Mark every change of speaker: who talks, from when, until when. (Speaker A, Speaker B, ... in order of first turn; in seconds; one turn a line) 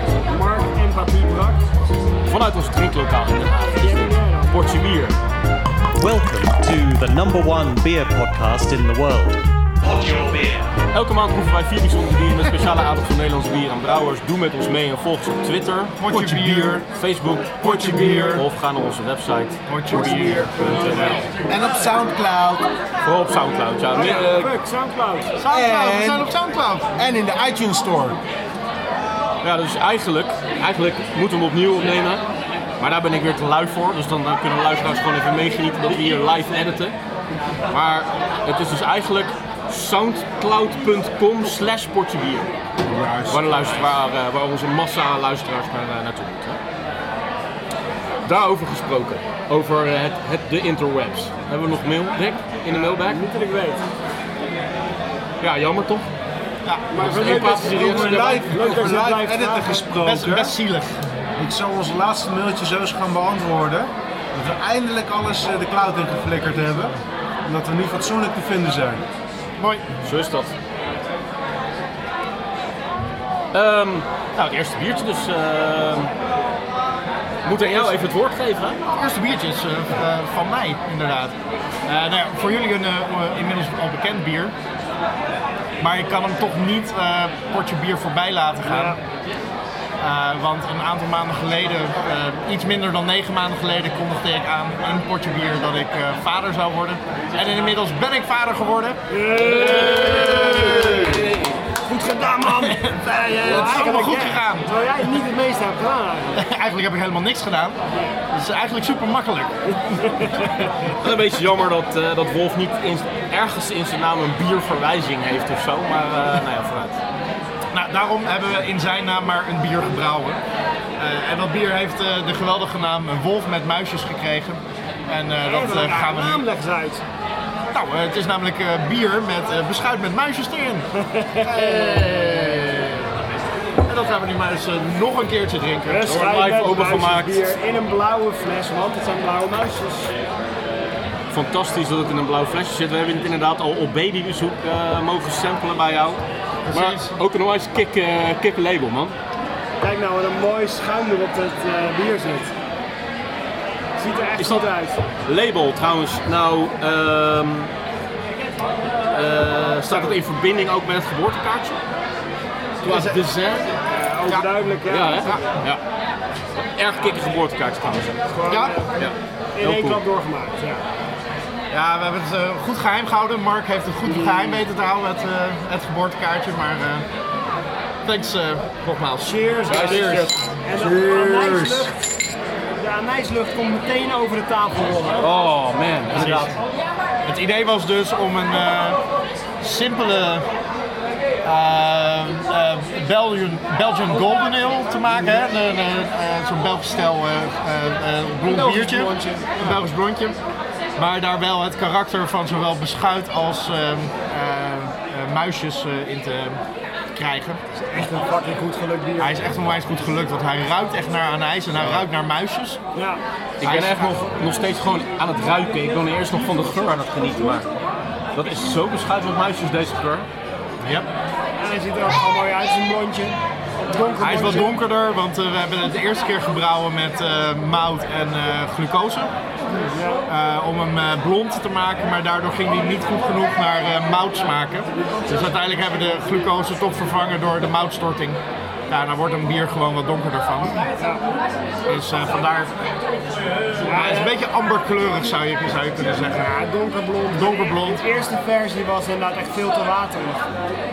Speaker A: 0.3-1.6
Speaker B: 2.2-5.2
Speaker A: 3.8-4.7
Speaker C: 6.0-10.8
Speaker B: 10.9-15.9
Speaker D: 16.0-16.8
Speaker E: 16.1-16.8
Speaker B: 16.9-21.3
Speaker E: 17.6-18.4
Speaker D: 17.7-18.4
Speaker D: 19.7-21.2
Speaker E: 19.9-22.7
Speaker B: 23.0-24.5
Speaker A: 23.9-25.3
Speaker D: 25.4-26.9
Speaker E: 25.5-26.3
Speaker E: 26.9-28.2
Speaker B: 29.4-32.2
Speaker B: 32.8-37.0
Speaker B: 37.7-42.5
Speaker E: 42.9-43.7
Speaker B: 43.3-46.6
Speaker B: 48.2-53.2
Speaker A: 52.7-53.8
Speaker B: 55.4-56.0
Speaker D: 56.6-57.1
Speaker A: 56.9-59.9
Speaker B: 57.0-58.8
Speaker E: 57.2-60.5
Speaker D: 60.0-61.0
Speaker E: 61.4-69.0
Speaker D: 69.6-69.8
Speaker B: 70.0-70.5
Speaker B: 73.5-76.1
Speaker B: 77.4-78.8
Speaker D: 77.6-78.0
Speaker D: 78.9-84.5
Speaker D: 85.8-89.0
Speaker A: 88.7-89.0
Speaker D: 90.0-101.3
Speaker A: 99.1-101.1
Speaker B: 99.3-101.6
Speaker A: 101.9-106.4
Speaker D: 102.0-104.7
Speaker D: 106.3-109.7
Speaker A: 110.0-110.7
Speaker B: 111.0-117.0
Speaker D: 117.7-120.4
Speaker D: 121.0-126.4
Speaker A: 125.4-127.0
Speaker D: 127.7-130.9
Speaker A: 131.0-132.3
Speaker D: 131.4-133.1
Speaker D: 133.8-136.2
Speaker A: 135.9-140.1
Speaker B: 136.1-137.4
Speaker B: 141.3-149.2
Speaker D: 146.7-147.2
Speaker A: 149.8-152.5
Speaker A: 154.0-155.0
Speaker B: 154.4-154.7
Speaker B: 155.2-157.7
Speaker B: 159.1-161.8
Speaker D: 162.8-163.2
Speaker B: 162.8-163.7
Speaker A: 163.9-165.5
Speaker B: 164.9-165.8
Speaker B: 166.6-168.2
Speaker A: 168.3-169.0
Speaker D: 168.5-168.8
Speaker B: 169.0-170.0
Speaker A: 169.6-170.8
Speaker D: 171.7-177.1
Speaker A: 174.1-174.6
Speaker D: 178.0-180.3
Speaker A: 179.2-182.2
Speaker B: 179.7-180.4
Speaker E: 180.8-181.9
Speaker A: 182.8-185.3
Speaker B: 185.2-186.6
Speaker D: 186.1-186.5
Speaker D: 187.2-189.0
Speaker D: 189.6-190.5
Speaker D: 191.4-200.4
Speaker A: 198.5-199.8
Speaker D: 201.0-206.6
Speaker D: 207.2-207.6
Speaker A: 207.8-209.4
Speaker D: 209.2-212.8
Speaker A: 212.9-213.2
Speaker B: 213.6-217.7
Speaker D: 213.6-214.1
Speaker B: 218.3-220.3
Speaker D: 220.8-221.1
Speaker A: 221.6-224.8
Speaker D: 224.2-229.3
Speaker A: 229.8-230.2
Speaker D: 230.3-240.8
Speaker D: 241.9-242.8
Speaker A: 243.8-244.4
Speaker D: 243.9-246.5
Speaker A: 246.2-250.4
Speaker D: 247.3-248.0